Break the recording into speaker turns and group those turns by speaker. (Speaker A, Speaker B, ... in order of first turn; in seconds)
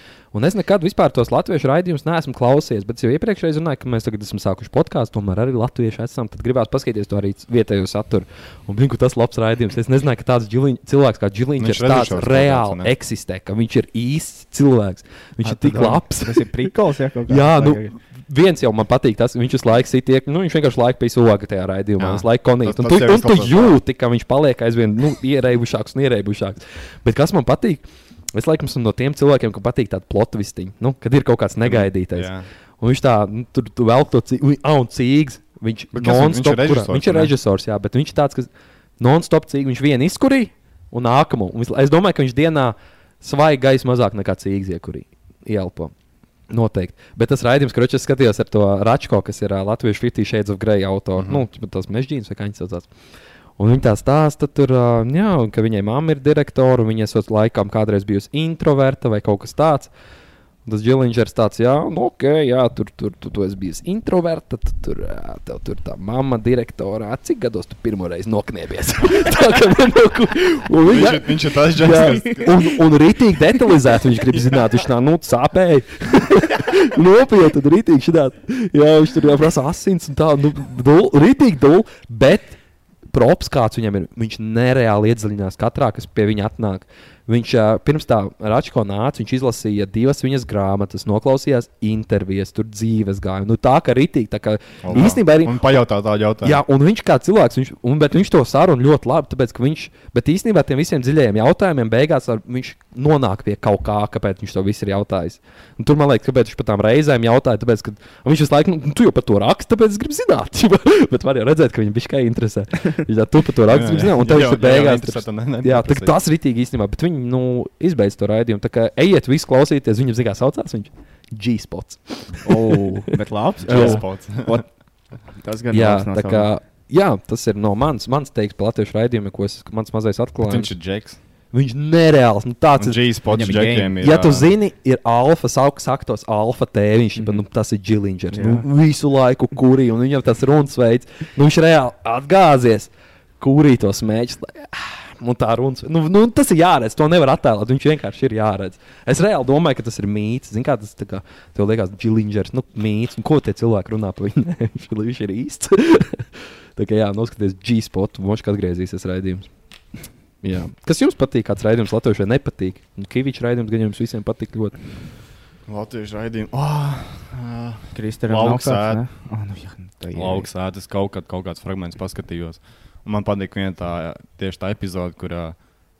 Speaker A: 0.3-16.7, 17.3-38.5, 39.0-45.9, 46.5-52.9, 53.6-59.9, 60.6-82.6, 83.1-95.7, 96.4-122.5, 123.7-124.0, 125.7-130.9, 131.5-133.2, 134.0-159.5, 160.4-164.8
Speaker B: 11.6-12.9, 22.0-23.8, 31.6-32.5, 35.9-37.3, 51.2-51.4, 70.8-72.7, 94.8-96.6, 113.7-116.1, 123.6-124.6, 130.4-131.2, 132.8-134.5, 165.7-169.0, 170.1-175.6
Speaker C: 15.4-17.9, 122.4-124.7, 125.4-126.5, 133.3-134.0, 137.2-137.4, 138.3-138.7, 167.9-170.5